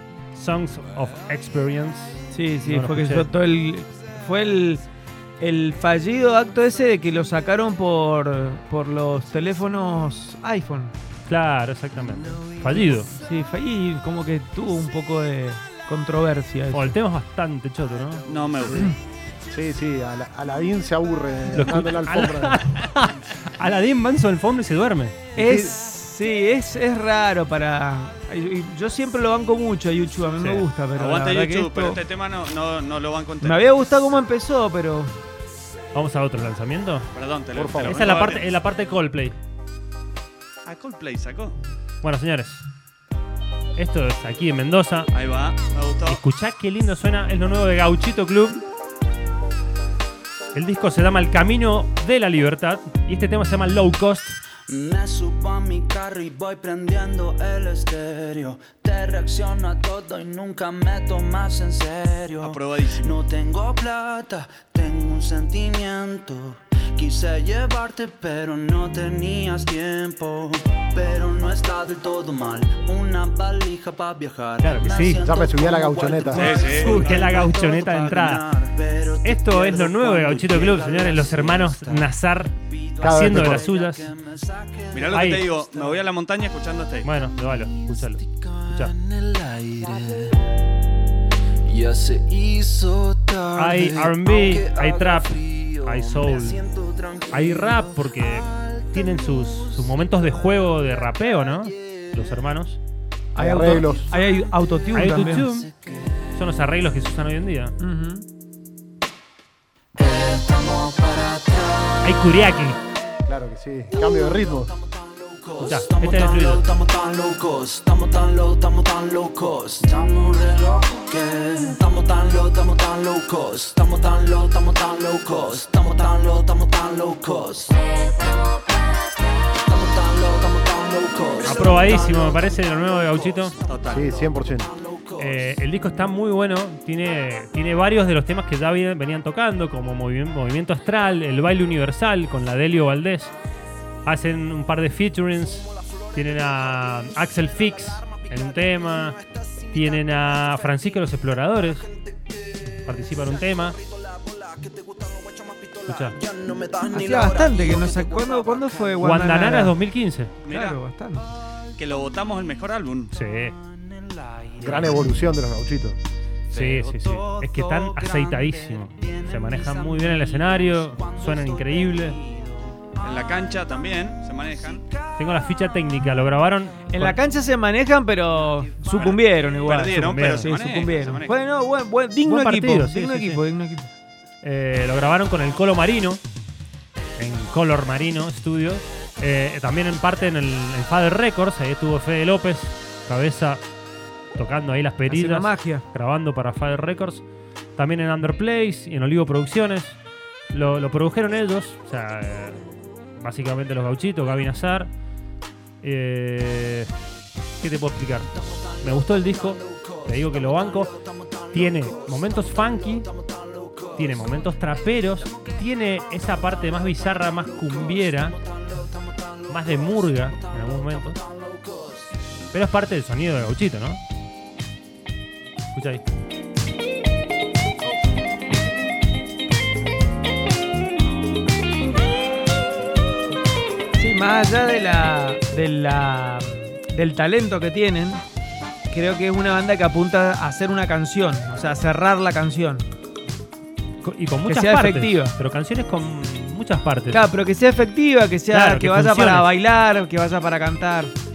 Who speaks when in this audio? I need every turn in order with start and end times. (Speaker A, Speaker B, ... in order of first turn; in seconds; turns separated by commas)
Speaker A: 0.3-3.3, Speaker B: 2.3-4.8, Speaker B: 5.4-10.9, Speaker A: 11.3-13.1, Speaker B: 13.2-16.9, Speaker A: 16.7-18.3, Speaker C: 18.3-18.9, Speaker D: 19.5-22.7, Speaker A: 21.5-25.3, Speaker D: 25.4-25.7, Speaker B: 25.4-32.0, Speaker A: 30.4-30.7, Speaker C: 30.9-33.6, Speaker B: 33.4-35.1, Speaker A: 35.9-37.1, Speaker C: 37.1-38.5, Speaker D: 37.5-38.0, Speaker A: 37.8-39.4, Speaker C: 40.6-41.6, Speaker A: 42.0-42.7, Speaker A: 43.8-45.1, Speaker C: 45.1-46.2, Speaker A: 46.0-48.6, Speaker A: 50.5-54.4, Speaker E: 54.7-82.1, Speaker C: 62.4-63.1, Speaker A: 74.6-75.3, Speaker D: 75.2-76.5, Speaker A: 76.3-78.5, Speaker C: 76.3-77.2, Speaker A: 79.2-84.1, Speaker E: 82.8-86.0, Speaker D: 83.0-83.7, Speaker C: 84.9-87.1, Speaker A: 85.1-85.5, Speaker A: 87.0-89.0, Speaker E: 88.4-90.4, Speaker E: 91.6-100.2, Speaker A: 93.5-96.6, Speaker A: 97.3-102.8, Speaker B: 103.3-105.5, Speaker D: 103.3-104.1, Speaker A: 104.9-105.7, Speaker E: 105.8-106.1, Speaker A: 106.3-107.7, Speaker B: 107.8-108.2, Speaker E: 110.0-112.0, Speaker A: 112.0-112.8, Speaker D: 113.2-114.7, Speaker E: 114.8-127.9, Speaker A: 115.6-116.6, Speaker E: 129.7-135.3, Speaker A: 131.4-133.6, Speaker C: 133.6-134.1, Speaker D: 133.9-134.7, Speaker A: 135.2-143.3, Speaker A: 144.1-149.2, Speaker A: 149.7-151.8, Speaker A: 152.8-153.8, Speaker E: 153.9-159.1, Speaker A: 155.8-156.2, Speaker B: 156.9-159.7, Speaker A: 159.0-160.4, Speaker C: 160.4-160.8, Speaker B: 160.5-161.3, Speaker C: 161.8-163.1, Speaker A: 163.1-163.6, Speaker E: 163.7-164.9, Speaker D: 164.6-166.0, Speaker A: 164.6-165.1, Speaker C: 166.5-167.0, Speaker A: 166.5-172.2, Speaker E: 167.0-172.9, Speaker C: 173.0-174.8, Speaker A: 175.1-177.2, Speaker B: 176.9-183.9, Speaker C: 178.8-181.4, Speaker A: 179.7-180.5, Speaker A: 182.2-183.4, Speaker A: 184.4-186.2, Speaker A: 187.2-193.6, Speaker A: 194.3-197.2, Speaker B: 195.1-195.8, Speaker A: 197.8-200.0, Speaker A: 200.5-204.9, Speaker A: 205.8-206.9, Speaker A: 207.6-213.1, Speaker E: 210.3-212.3, Speaker E: 212.9-214.2, Speaker A: 213.9-218.4, Speaker E: 217.6-219.3, Speaker A: 219.5-221.2, Speaker E: 220.2-222.0, Speaker A: 222.5-224.0, Speaker A: 225.7-226.0, Speaker B: 234.0-238.2, Speaker B: 238.9-242.9, Speaker A: 244.0-247.3, Speaker B: 244.4-245.3, Speaker B: 247.1-251.1, Speaker A: 248.5-249.5